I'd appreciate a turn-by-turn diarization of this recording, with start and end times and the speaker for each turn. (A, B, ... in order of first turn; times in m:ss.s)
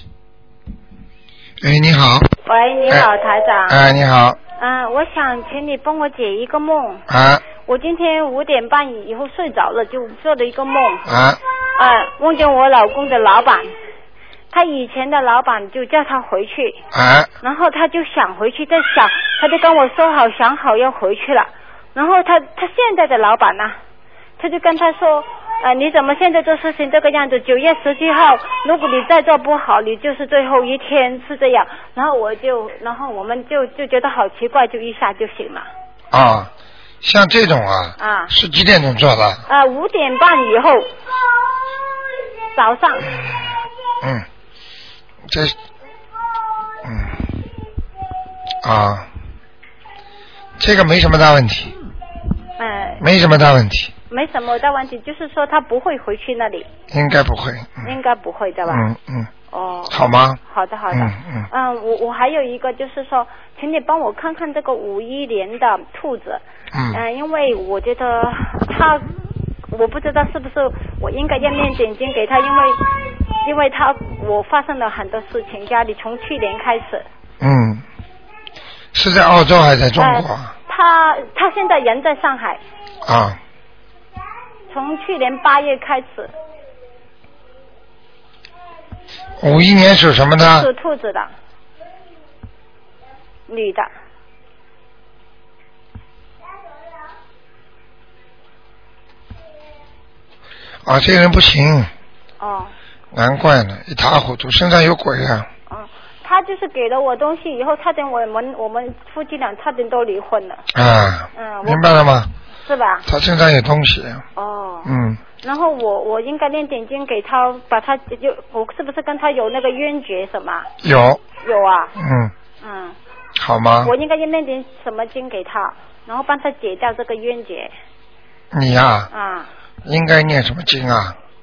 0:01.6-0:02.3 A
0:02.4-0:03.8 B
0:03.7-0:04.4 A
0:04.6-0:07.0 B
0:07.1-0:07.4 A
0:07.6-0:11.0 B
0:11.0-0:11.4 A
0:11.8-0:13.7 B
0:14.5-0:16.8 B
0:16.9-0:17.3 A
0:17.4-0:23.8 B
0:24.4-0:35.7 B
0:36.1-0:36.5 A
0:37.0-0:39.4 A
0:38.0-0:38.3 B
0:39.5-0:40.9 B
0:42.5-0:43.1 B
0:44.0-0:44.2 A
0:45.3-0:45.6 A
0:46.8-0:47.2 A
0:48.6-0:49.1 A
0:50.6-0:51.7 A
0:52.6-0:53.0 B
0:53.0-0:53.9 A
0:54.1-0:56.7 B
0:56.9-0:57.9 A
0:57.8-0:58.8 B
0:58.7-0:59.3 A
0:59.5-1:06.4 B
0:59.9-1:01.5 A
1:06.7-1:07.0 A
1:06.9-1:09.1 B
1:09.7-1:12.8 B
1:13.4-1:17.0 B
1:17.4-1:17.8 A
1:18.9-1:20.5 A
1:20.0-1:22.6 B
1:23.0-1:23.4 A
1:24.7-1:26.3 B
1:29.4-1:30.7 A
1:30.6-1:31.3 B
1:33.5-1:33.9 B
1:40.8-1:41.9 A
1:42.4-1:42.7 B
1:43.1-1:45.5 A
1:45.7-1:50.6 B
1:50.7-1:52.3 A
1:51.3-1:52.0 B
1:52.6-1:53.1 B
1:53.0-1:54.2 A
1:54.4-1:54.9 B
1:54.8-1:55.2 A
1:55.4-2:00.7 B
2:00.8-2:01.2 A
2:01.4-2:01.9 B
2:01.9-2:02.3 A
2:02.6-2:03.0 B
2:03.4-2:03.9 A
2:03.8-2:07.7 B
2:08.5-2:09.1 A
2:09.1-2:09.5 B
2:09.8-2:11.2 A